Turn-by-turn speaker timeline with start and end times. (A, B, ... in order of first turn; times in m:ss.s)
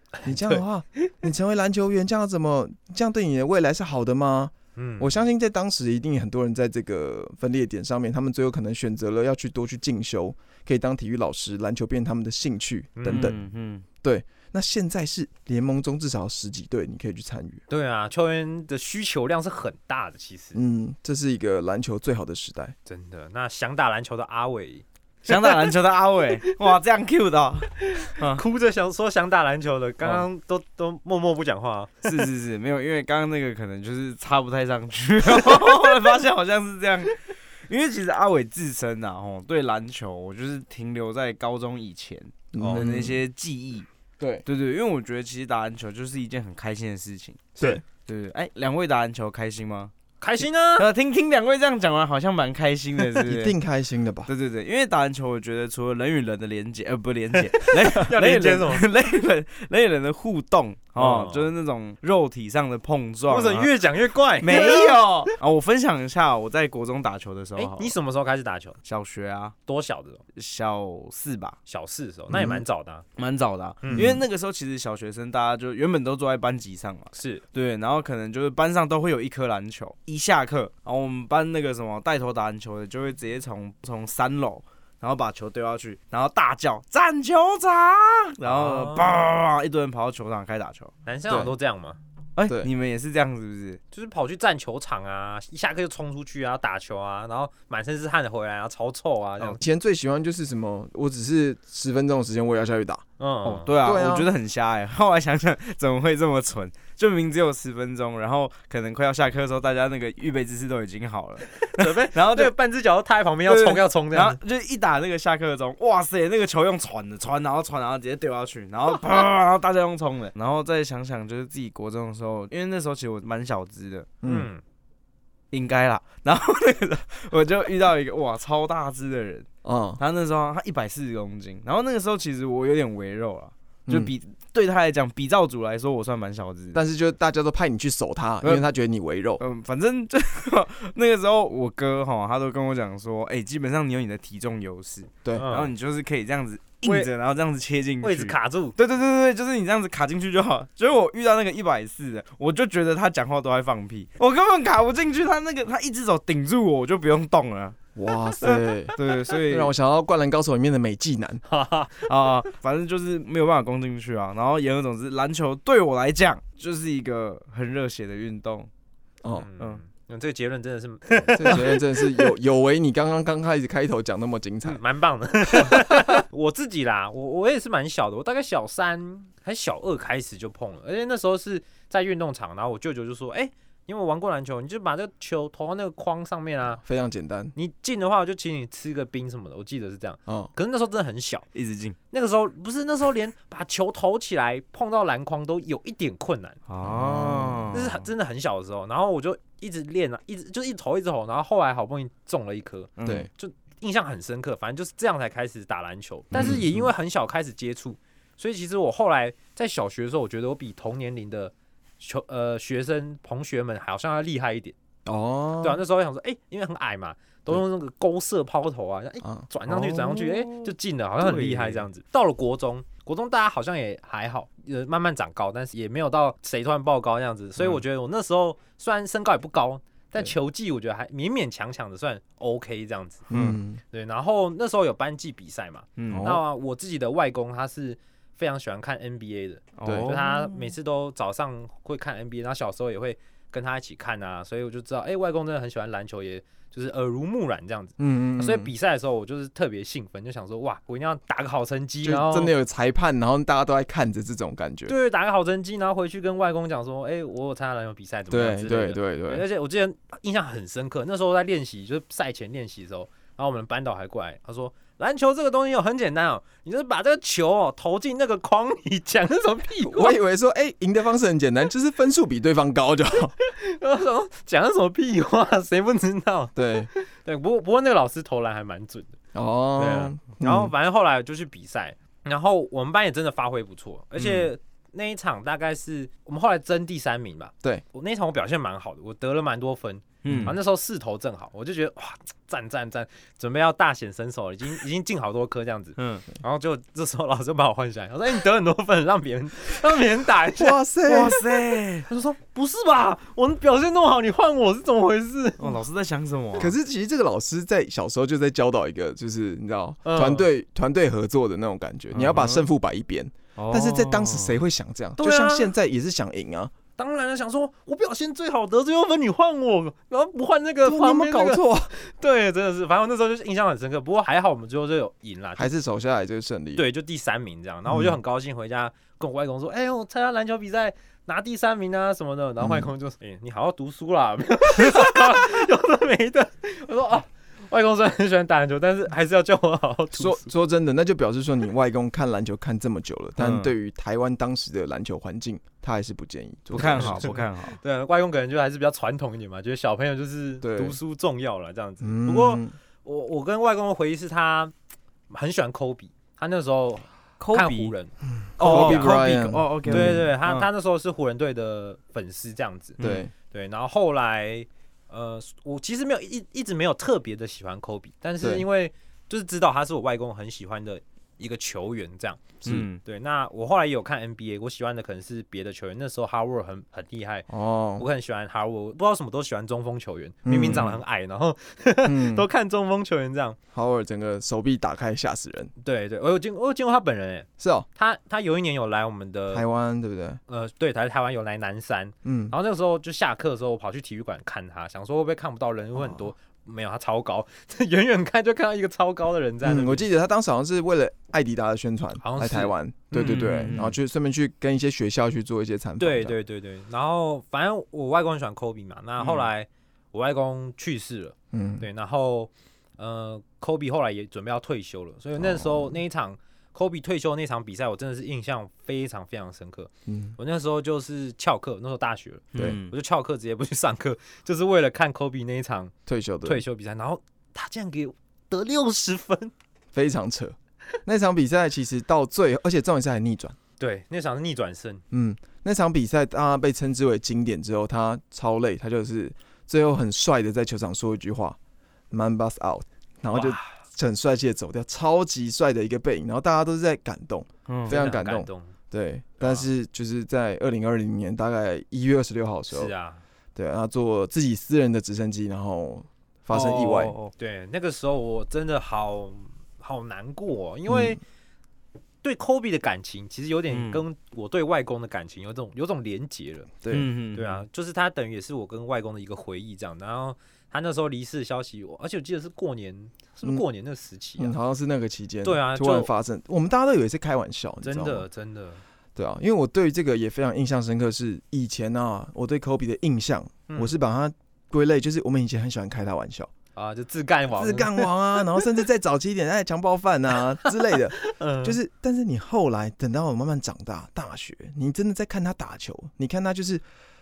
0:00.2-0:13.4 A
0:00.2-0:00.6 B
0:04.8-0:05.2 B
0:13.0-0:13.3 B
0:13.1-0:13.8 C
0:14.0-0:17.6 A
0:17.7-0:20.6 B
0:20.5-0:22.8 A
0:22.9-0:25.7 B
0:25.2-0:28.4 C
0:27.8-0:32.1 B
0:32.0-0:43.9 C
0:35.4-0:35.9 B
0:42.5-0:43.2 A
0:42.6-0:42.8 B
0:44.2-0:44.4 A
0:44.4-0:49.9 C
0:47.6-0:47.8 A
0:50.2-0:50.9 B
0:50.8-0:53.6 C
0:53.2-0:54.3 A
0:54.2-1:03.7 C
0:57.4-0:58.9 B
1:01.0-1:01.5 B
1:03.3-1:05.0 B
1:04.4-1:08.0 C
1:07.6-1:08.8 B
1:08.8-1:09.5 C
1:09.6-1:10.2 B
1:10.4-1:11.6 C
1:11.7-1:13.0 B
1:12.3-1:12.6 A
1:13.2-1:30.9 C
1:13.8-1:14.2 B
1:14.0-1:14.2 A
1:17.1-1:17.4 B
1:28.4-1:29.2 B
1:31.1-1:32.0 B
1:31.3-1:31.5 A
1:32.4-1:33.8 C
1:33.9-1:39.6 B
1:39.6-1:43.0 A
1:43.2-1:43.7 B
1:43.4-1:52.5 C
1:43.8-1:44.3 A
1:51.6-1:54.4 B
1:53.5-2:04.1 C
2:04.2-2:04.5 A
2:04.2-2:04.6 B
2:05.5-2:09.5 C
2:09.6-2:10.0 A
2:10.0-2:16.8 C
2:13.9-2:14.1 A
2:16.7-2:19.4 A
2:19.4-2:37.8 C
2:25.4-2:25.7 B
2:26.8-2:27.1 B
2:28.0-2:28.8 B
2:38.0-2:41.4 A
2:38.4-2:39.8 C
2:41.5-2:42.1 B
2:42.0-2:48.7 C
2:49.4-2:52.3 B
2:51.3-2:54.8 A
2:54.6-3:06.8 B
2:55.5-2:55.8 A
3:06.8-3:07.5 A
3:07.5-3:11.4 B
3:11.5-3:12.0 C
3:12.1-3:16.6 B
3:16.7-3:18.0 C
3:16.8-3:17.7 A
3:17.7-3:34.8 B
3:23.0-3:23.3 C
3:26.3-3:26.9 A
3:35.1-3:35.8 A
3:35.6-3:53.3 B
3:39.7-3:41.9 C
3:53.3-3:53.8 A
3:53.3-3:53.6 C
3:53.9-4:12.5 B
3:56.0-3:56.4 C
3:56.1-3:56.4 A
3:59.8-4:00.7 C
3:59.8-4:00.1 A
4:08.0-4:08.7 A
4:12.0-4:14.9 A
4:14.9-4:30.2 B
4:18.3-4:19.5 A
4:29.8-4:33.3 A
4:33.4-4:39.2 B
4:36.5-4:36.9 A
4:39.3-4:40.7 A
4:39.8-5:00.8 B
4:44.2-4:44.5 A
4:50.2-4:50.6 C
4:50.3-4:50.6 A
4:56.0-4:56.2 C
5:00.5-5:01.4 A
5:01.1-5:02.1 C
5:02.1-5:05.8 B
5:05.6-5:06.8 C
5:06.6-5:16.7 A
5:10.0-5:10.5 B
5:12.1-5:12.6 C
5:13.6-5:14.6 C
5:15.2-5:15.7 B
5:17.0-5:25.7 B
5:20.8-5:21.9 A
5:25.6-5:26.8 A
5:26.8-5:40.5 B
5:27.9-5:28.2 A
5:32.6-5:32.9 A
5:40.2-5:47.4 A
5:43.4-5:43.7 C
5:46.7-5:47.8 C
5:46.8-5:54.7 B
5:50.6-5:51.0 A
5:52.0-5:52.8 A
5:55.3-5:59.2 B
5:57.4-5:57.9 C
5:58.4-6:00.2 A
5:58.6-6:00.7 C
5:59.9-6:03.0 B
6:03.0-6:03.2 C
6:03.0-6:03.3 A
6:03.5-6:23.6 B
6:08.4-6:08.6 A
6:12.6-6:13.0 C
6:17.5-6:18.1 A
6:20.4-6:21.0 A
6:22.0-6:22.5 A
6:23.7-6:25.7 A
6:25.8-6:29.6 B
6:27.6-6:27.9 A
6:29.5-6:30.4 A
6:30.5-6:40.1 B
6:32.2-6:32.6 A
6:36.0-6:36.3 A
6:39.6-6:46.4 A
6:42.2-6:43.5 B
6:43.2-6:44.0 C
6:46.0-7:05.9 B
6:51.5-6:51.9 A
6:55.4-6:56.0 A
7:00.1-7:00.4 A
7:02.5-7:02.9 C
7:02.5-7:02.8 A
7:06.1-7:06.6 A
7:06.4-7:09.5 B
7:09.9-7:13.6 A
7:13.8-7:15.0 B
7:15.1-7:21.6 A
7:22.1-7:32.9 A
7:23.3-7:23.7 B
7:27.7-7:28.0 C
7:27.9-7:28.7 B
7:29.4-7:29.7 B
7:32.7-7:33.2 B
7:33.5-7:37.1 A
7:36.5-7:37.3 C
7:37.4-7:41.2 B
7:40.9-7:41.2 A
7:42.2-7:46.7 B
7:43.7-7:44.0 C
7:46.8-7:47.1 A
7:46.9-7:47.6 C
7:47.3-7:54.5 B
7:54.4-7:58.2 A
7:55.4-7:56.1 B
7:57.8-7:58.8 B
7:59.1-8:06.5 A
8:06.8-8:08.1 B
8:07.5-8:16.8 A
8:10.6-8:11.8 B